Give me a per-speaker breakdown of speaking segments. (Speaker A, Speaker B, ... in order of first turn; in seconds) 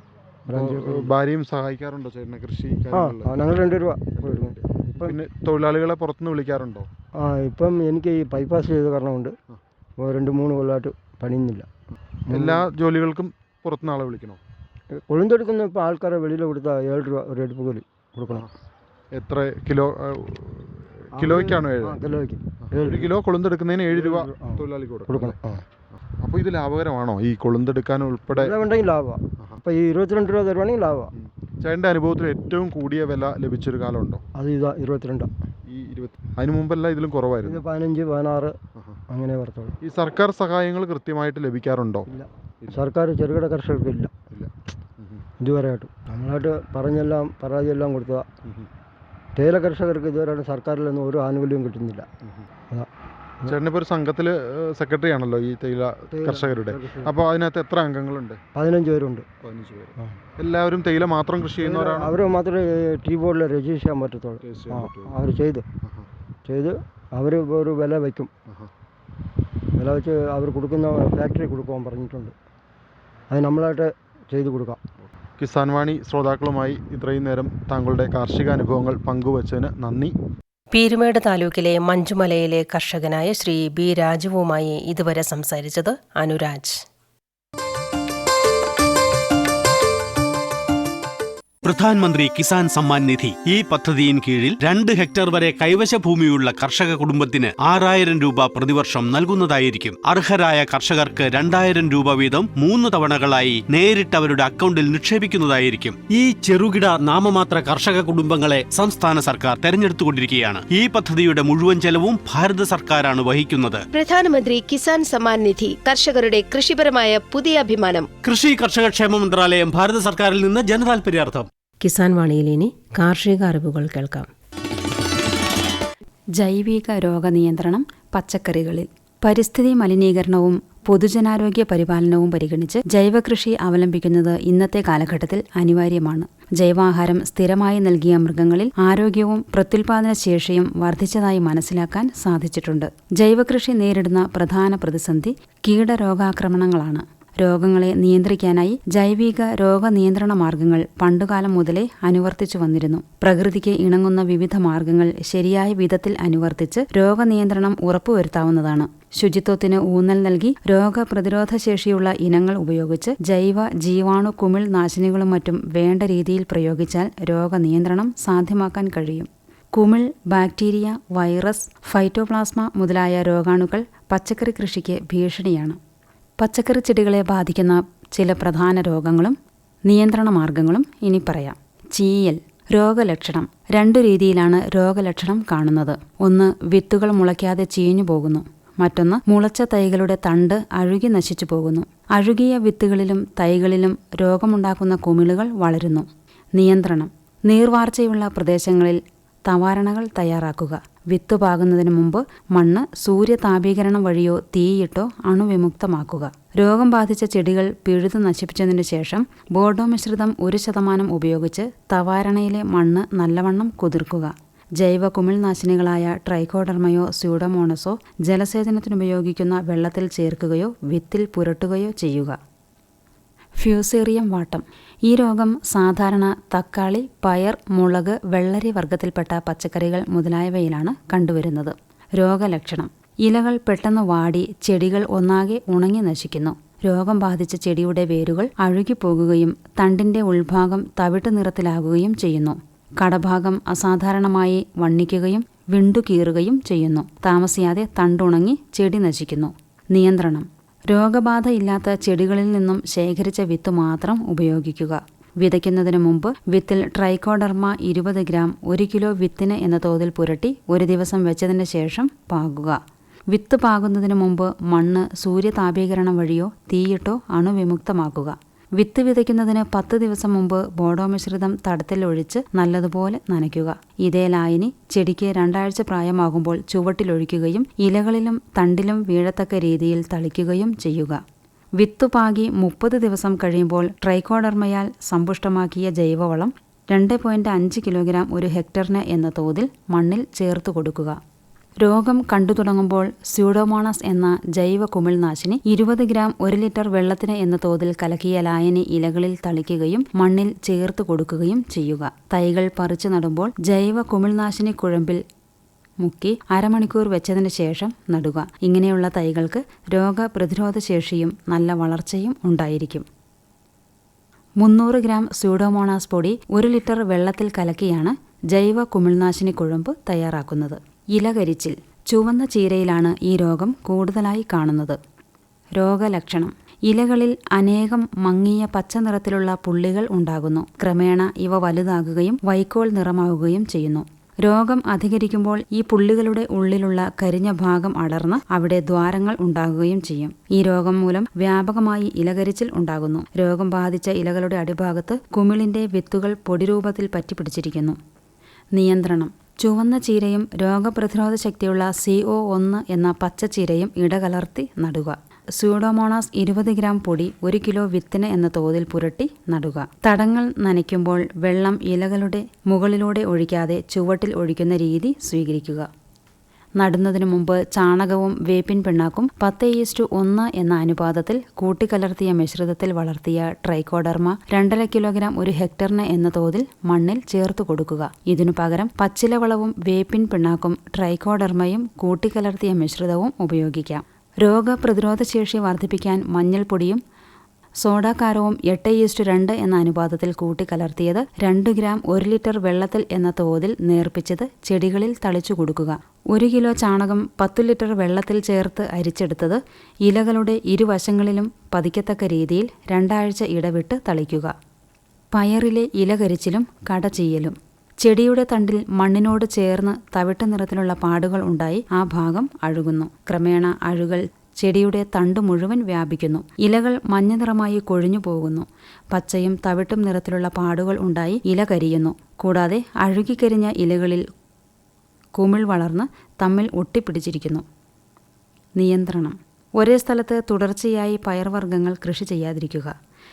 Speaker A: 0.5-6.9, 12.3-14.4, 19.1-22.0, 22.6-25.4, 26.2-28.6, 31.1-34.2, 35.7-37.6, 39.8-42.1, 44.3-45.2, 53.5-58.4, 59.4-62.1, 64.4-65.2, 75.4-80.1
Speaker B: 0.5-1.1, 2.9-5.2, 7.2-9.3, 10.0-11.7, 12.3-12.7, 15.1-18.4, 21.1-23.1, 23.9-25.6, 28.3-31.1, 34.4-35.3, 37.4-38.5, 39.1-39.8, 42.1-44.1, 45.4-48.2, 49.4-52.1, 56.1-57.1, 58.5-59.2, 61.6-65.6, 66.5-68.3, 69.8-72.3, 73.3-74.8
Speaker C: 80.7-86.8, 121.8-124.3
Speaker D: 91.6-113.8, 118.2-121.5
Speaker E: 113.9-118.1
Speaker F: 126.4-175.8, 176.4-179.4, 179.9-222.4, 223.6-262.8, 263.3-281.2, 281.8-291.2, 291.8-305.2, 306.0-313.1, 314.6-325.0, 325.8-348.0, 348.7-365.9, 366.8-387.0, 387.8-404.5, 405.3-424.2, 425.4-427.6, 428.8-432.9